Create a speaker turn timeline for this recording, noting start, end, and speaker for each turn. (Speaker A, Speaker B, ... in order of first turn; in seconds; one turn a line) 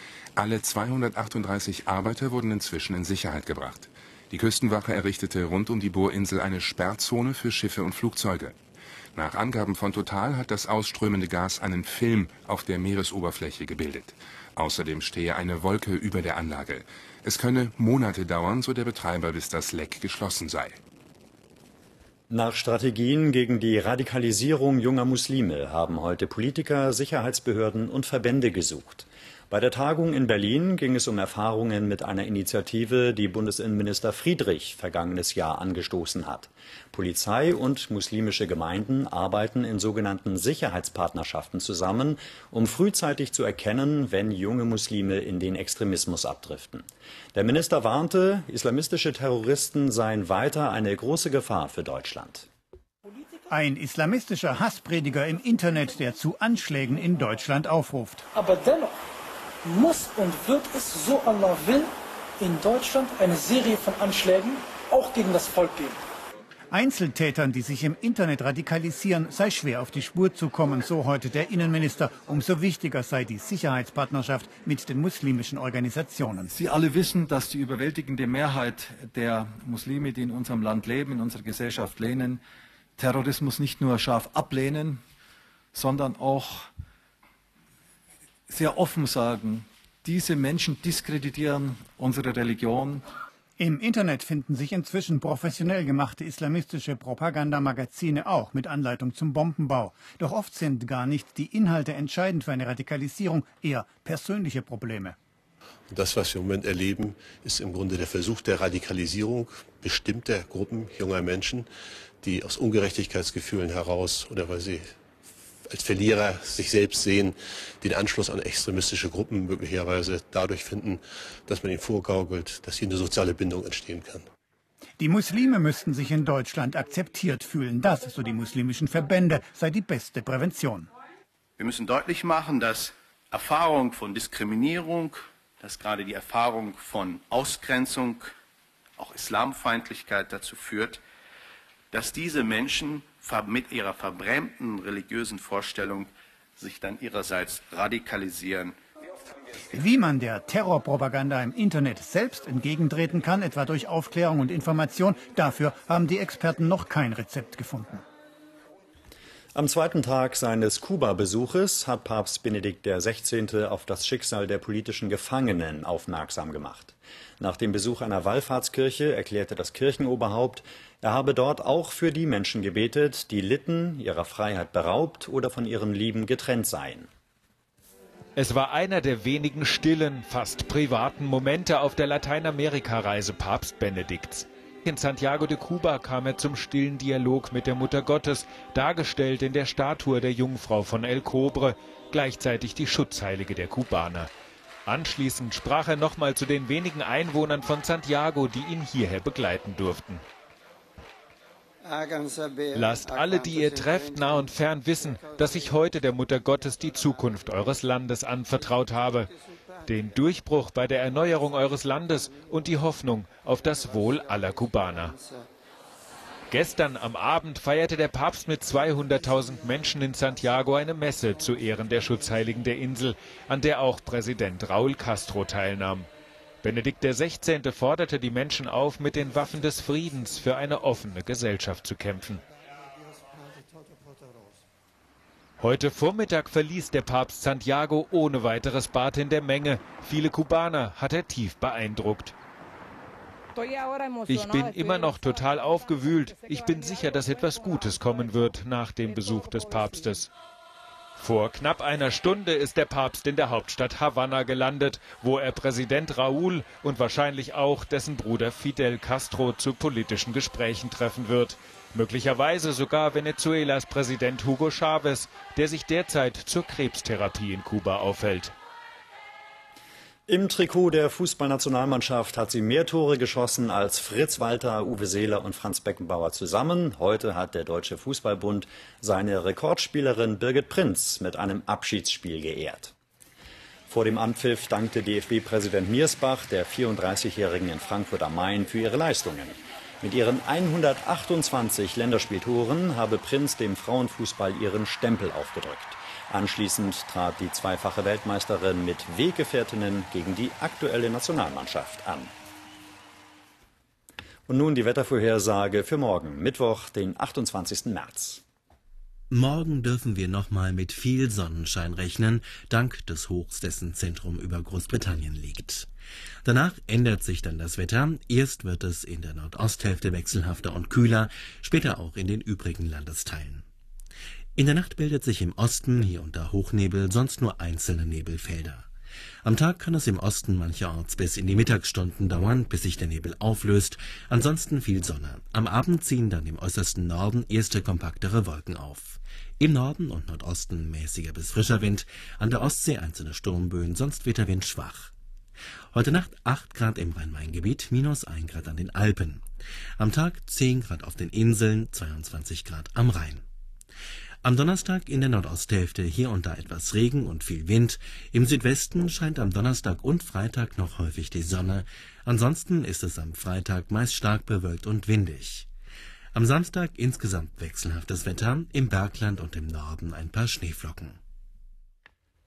Speaker A: 0.4-8.6
Speaker A: 9.1-20.8
Speaker B: 22.3-52.5
Speaker C: 53.5-58.2
Speaker D: 58.4-58.9
Speaker D: 59.6-66.0
Speaker C: 66.7-76.5
Speaker E: 76.5-82.4
Speaker E: 83.0-85.0
Speaker E: 85.7-86.7
Speaker E: 88.5-93.0
Speaker C: 93.6-105.2
Speaker F: 105.9-111.7
Speaker F: 112.2-115.0
Speaker F: 115.7-124.2
Speaker C: 125.0-130.9
Speaker G: 131.6-138.3
Speaker G: 139.0-141.0
Speaker G: 141.9-148.8
Speaker C: 149.7-158.0
Speaker B: 159.6-177.1
Speaker H: 178.4-194.3
Speaker H: 194.9-200.2
Speaker H: 202.7-209.3
Speaker H: 209.9-215.2
Speaker H: 216.5-226.1
Speaker H: 226.6-232.4
Speaker H: 235.6-242.3
Speaker H: 244.3-250.3
Speaker H: 251.2-268.5
Speaker B: 270.3-282.9
Speaker B: 283.9-302.3
Speaker B: 304.5-308.4
Speaker I: 309.3-315.9
Speaker I: 316.4-323.6
Speaker I: 324.6-328.9
Speaker I: 329.4-345.1
Speaker I: 345.9-349.4
Speaker I: 350.0-353.4
Speaker I: 354.4-365.7
Speaker I: 366.3-371.2